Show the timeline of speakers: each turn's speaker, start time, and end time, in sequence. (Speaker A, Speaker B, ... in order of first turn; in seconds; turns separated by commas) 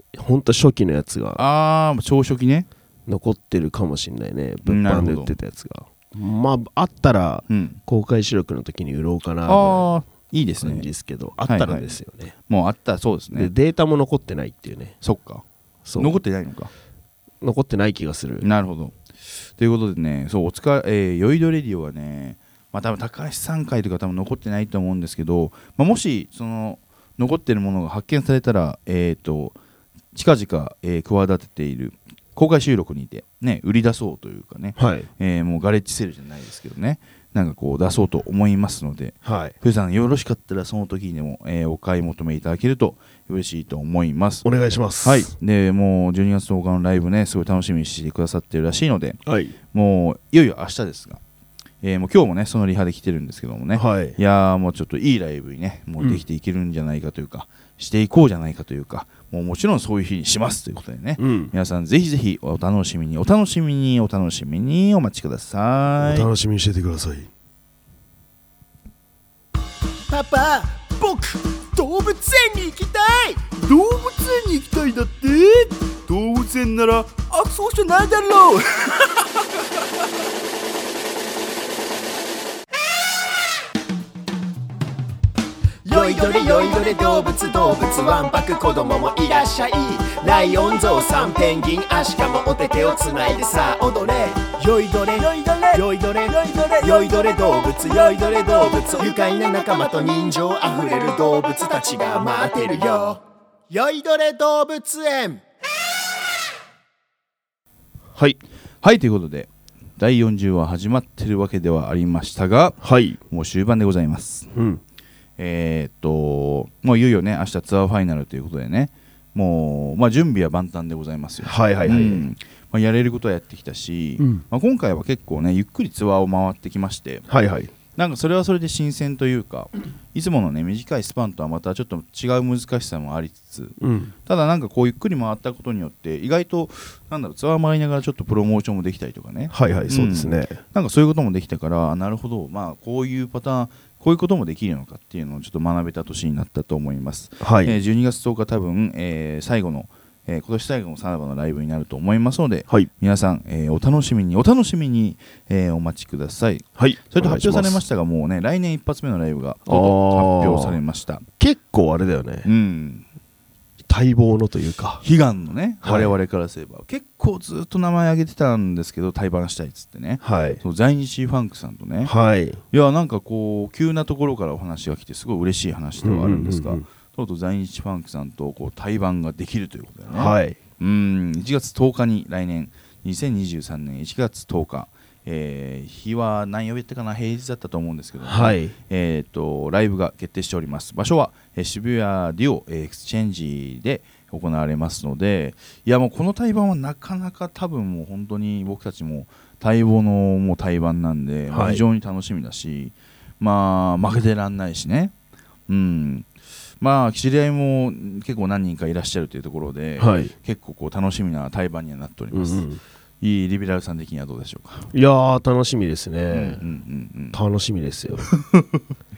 Speaker A: 0.1-1.4, Speaker B: 1.4-2.7, Speaker A: 3.1-9.9, Speaker B: 4.7-5.4, Speaker B: 7.5-7.8, Speaker B: 9.5-10.9, Speaker A: 10.6-12.3, Speaker B: 11.5-13.5, Speaker A: 13.3-15.0, Speaker B: 15.0-15.4, Speaker A: 15.9-16.1, Speaker B: 16.0-16.7, Speaker A: 17.4-18.5, Speaker B: 18.4-19.0, Speaker B: 19.6-29.6, Speaker B: 30.1-44.5, Speaker A: 34.8-35.1, Speaker A: 39.2-39.5, Speaker A: 44.4-45.3, Speaker B: 45.0-49.2, Speaker A: 49.3-49.6, Speaker B: 49.7-51.2, Speaker B: 51.8-66.3, Speaker A: 53.8-54.2, Speaker A: 61.2-61.5, Speaker A: 66.0-67.3, Speaker C: 70.1-73.5, Speaker B: 73.5-79.4, Speaker C: 85.8-105.4, Speaker A: 108.1-108.4, Speaker B: 108.8-114.5, Speaker A: 112.8-113.2, Speaker A: 114.5-114.8, Speaker B: 115.4-127.3, Speaker A: 121.4-122.3, Speaker A: 124.2-124.4, Speaker A: 127.3-127.7, Speaker B: 128.0-161.2, Speaker A: 133.8-134.1, Speaker A: 139.5-140.6, Speaker A: 147.4-147.8, Speaker A: 156.8-157.8, Speaker A: 159.7-160.8, Speaker A: 161.4-162.5, Speaker B: 162.4-163.0, Speaker A: 163.9-165.0, Speaker B: 165.0-172.1, Speaker A: 165.8-166.1, Speaker A: 170.2-170.6, Speaker A: 172.0-172.6, Speaker B: 172.7-205.1, Speaker A: 176.0-176.9, Speaker A: 180.1-180.6, Speaker A: 188.2-188.7, Speaker A: 201.5-201.8, Speaker B: 205.7-206.3, Speaker B: 206.8-212.6, Speaker A: 210.0-210.3, Speaker A: 212.3-212.8, Speaker B: 213.2-214.9, Speaker A: 214.9-216.6, Speaker B: 216.3-217.4, Speaker A: 217.3-218.3, Speaker B: 218.2-218.9